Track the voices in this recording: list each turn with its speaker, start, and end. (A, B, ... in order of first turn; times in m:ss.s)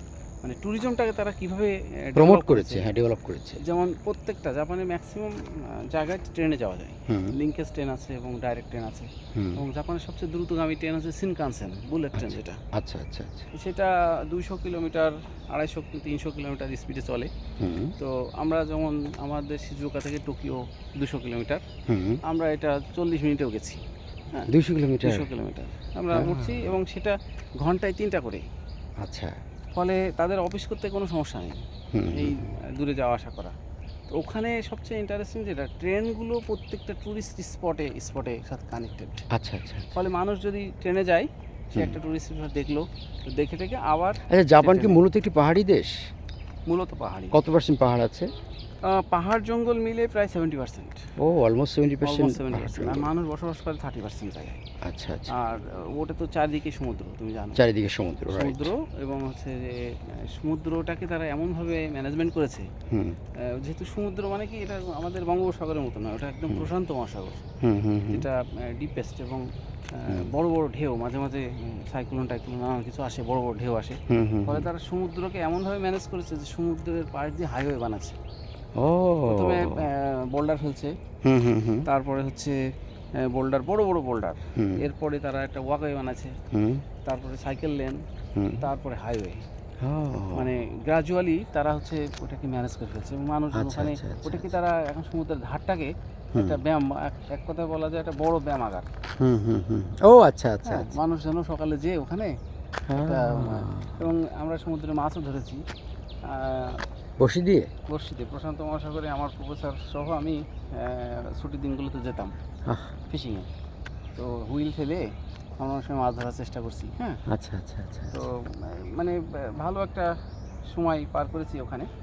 0:00.4-0:02.9 A
0:02.2-0:03.6 B
0:03.6-0:12.6 A
0:07.1-0:07.3 B
0:09.3-0:09.6 B
0:12.1-0:13.5 B
0:13.5-0:17.3 A
0:17.6-0:17.9 B
0:18.0-0:21.6 A
0:21.9-0:22.2 B
0:22.2-0:24.5 A
0:24.5-0:25.3 B
0:25.0-0:28.4 A
0:26.1-0:26.8 B
0:29.0-0:29.4 B
0:29.7-0:31.6 A
0:31.9-0:32.4 B
0:32.1-0:33.6 A
0:34.1-0:39.2 A
0:39.3-0:39.9 B
0:39.9-0:45.0 A
0:44.3-0:45.9 B
0:46.6-0:47.4 A
0:47.3-0:48.3 B
0:48.8-0:51.1 A
0:51.2-0:53.1 B
0:52.0-0:54.6 A
0:54.8-0:55.3 B
0:55.3-0:57.6 A
0:57.6-0:58.7 B
0:58.3-1:02.7 A
1:02.9-1:03.2 B
1:03.4-1:07.4 A
1:07.6-1:08.3 B
1:08.1-1:18.2 A
1:14.1-1:14.7 B
1:18.8-1:19.8 B
1:19.2-1:20.9 A
1:21.2-1:21.8 B
1:21.8-1:22.6 A
1:23.2-1:26.4 A
1:24.6-1:24.9 B
1:26.5-1:26.8 B
1:27.0-1:28.0 A
1:28.3-1:28.7 B
1:28.6-1:29.4 A
1:29.8-1:30.5 B
1:30.3-1:38.9 A
1:33.5-1:34.5 B
1:39.2-1:41.0 B
1:40.6-1:42.3 A
1:42.9-1:44.1 B
1:42.9-1:45.6 A
1:46.2-1:46.8 A
1:47.2-1:47.7 B
1:47.9-1:52.3 A
1:52.6-1:52.9 B
1:53.1-1:53.5 A
1:54.2-1:55.1 A
1:55.6-1:57.2 A
1:57.3-1:58.2 B
1:58.1-2:00.1 A
2:00.7-2:01.9 A